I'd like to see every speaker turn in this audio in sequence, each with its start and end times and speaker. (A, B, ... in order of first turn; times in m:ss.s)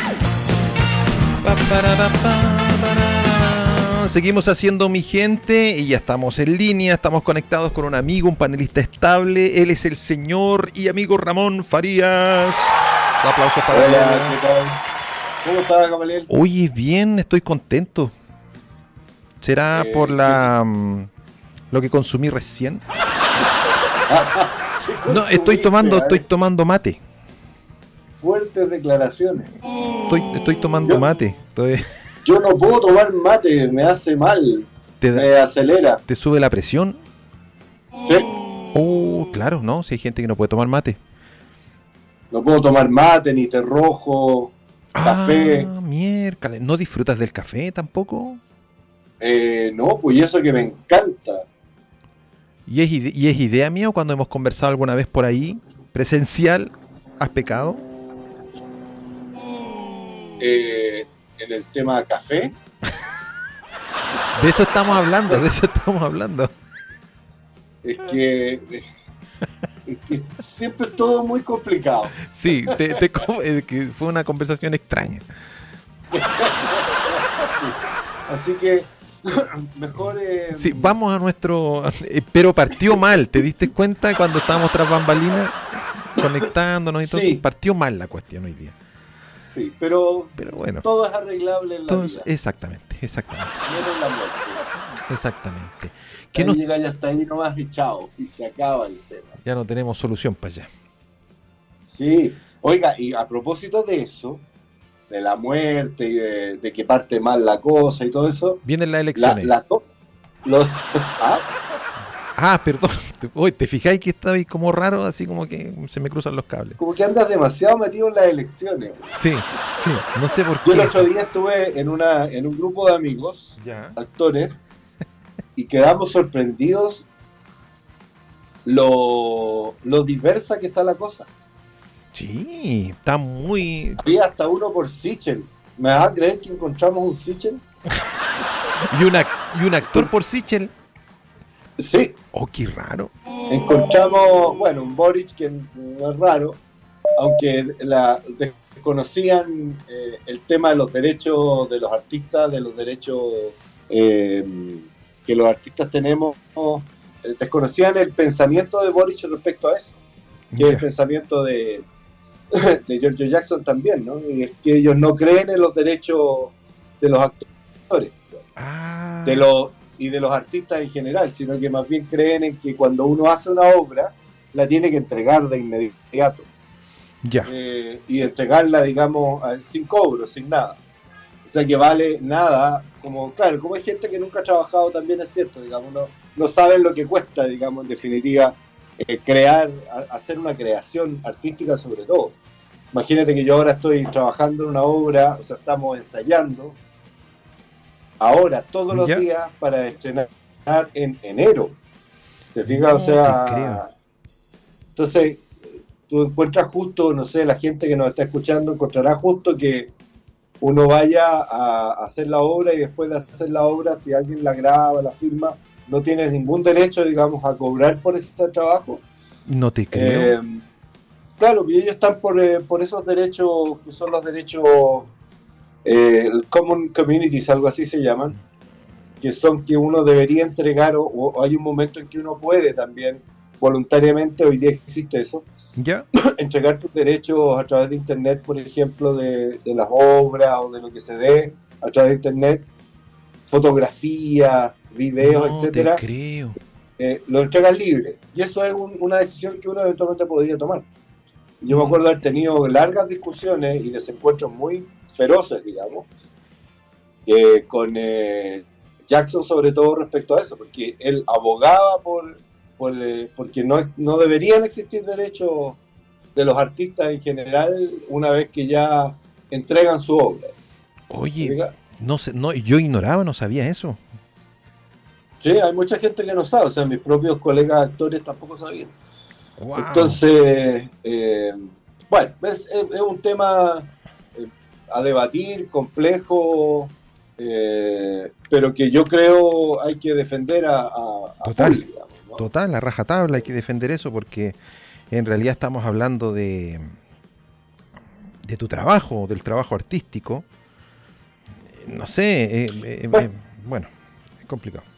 0:01.4-0:14.4 A
0:13.7-0:14.8 B
0:15.4-0:16.3 B
0:16.3-0:18.1 A
0:19.4-0:21.1 A
0:19.7-0:20.5 B
0:21.7-0:22.8 A
0:24.1-0:26.2 B
0:25.1-0:27.0 A
0:28.2-0:29.5 B
0:30.1-0:31.8 A
0:32.2-0:36.0 B
0:35.0-0:35.3 A
0:36.1-0:37.0 A
0:38.7-0:41.0 A
0:42.3-0:45.7 B
0:44.9-0:48.4 A
0:49.2-0:51.5 B
0:52.7-0:57.8 A
1:00.4-1:02.6 B
1:04.3-1:06.5 A
1:07.8-1:08.9 B
1:09.8-1:13.0 B
1:12.2-1:15.2 A
1:16.1-1:20.9 B
1:20.5-1:25.6 A
1:26.1-1:28.8 A
1:27.0-1:27.4 B
1:29.4-1:32.3 B
1:30.4-1:30.8 A
1:31.9-1:33.6 A
1:33.6-1:34.7 B
1:35.1-1:36.6 A
1:36.3-1:39.4 B
1:39.4-1:40.7 A
1:41.9-1:44.4 B
1:45.1-1:48.6 B
1:48.6-1:49.5 A
1:49.1-1:49.9 B
1:50.4-1:51.5 B
1:52.3-1:56.8 A
1:56.8-1:59.1 B
1:59.1-2:01.1 A
2:00.6-2:04.6 B
2:03.6-2:04.0 A
2:05.6-2:07.1 B
2:08.6-2:11.3 B
2:12.1-2:14.0 A
2:14.0-2:17.6 B
2:18.8-2:20.7 A
2:21.8-2:22.2 B
2:22.3-2:23.1 A
2:23.5-2:26.6 B
2:27.2-2:40.0 B
2:40.5-2:40.8 A
2:40.6-2:41.8 B
2:42.5-2:48.4 B
2:48.6-2:49.4 A
2:49.2-2:56.5 B
2:57.2-2:57.5 A
2:57.4-3:00.8 B
3:01.5-3:12.4 B
3:12.9-3:16.8 B
3:18.2-3:21.8 B
3:18.9-3:19.2 A
3:22.5-3:23.9 B
3:22.6-3:23.8 A
3:25.0-3:25.5 B
3:26.1-3:29.9 B
3:30.6-3:39.0 B
3:39.4-3:40.4 A
3:39.9-3:40.6 B
3:41.4-3:45.1 B
3:45.8-3:48.4 B
3:49.2-3:55.5 B
3:55.8-3:56.0 A
3:56.1-4:02.7 B
4:03.5-4:06.0 B
4:05.2-4:06.6 A
4:07.0-4:10.9 B
4:11.6-4:16.1 B
4:11.7-4:12.0 A
4:17.3-4:25.8 B
4:26.4-4:30.5 B
4:31.1-4:34.0 A
4:31.4-4:31.8 B
4:35.4-4:39.0 B
4:39.6-4:40.2 A
4:39.7-4:52.4 B
4:51.4-4:51.8 A
4:52.4-4:54.6 A
4:55.1-4:56.9 A
4:58.4-5:00.4 A
5:01.6-5:03.9 A
5:04.4-5:04.8 A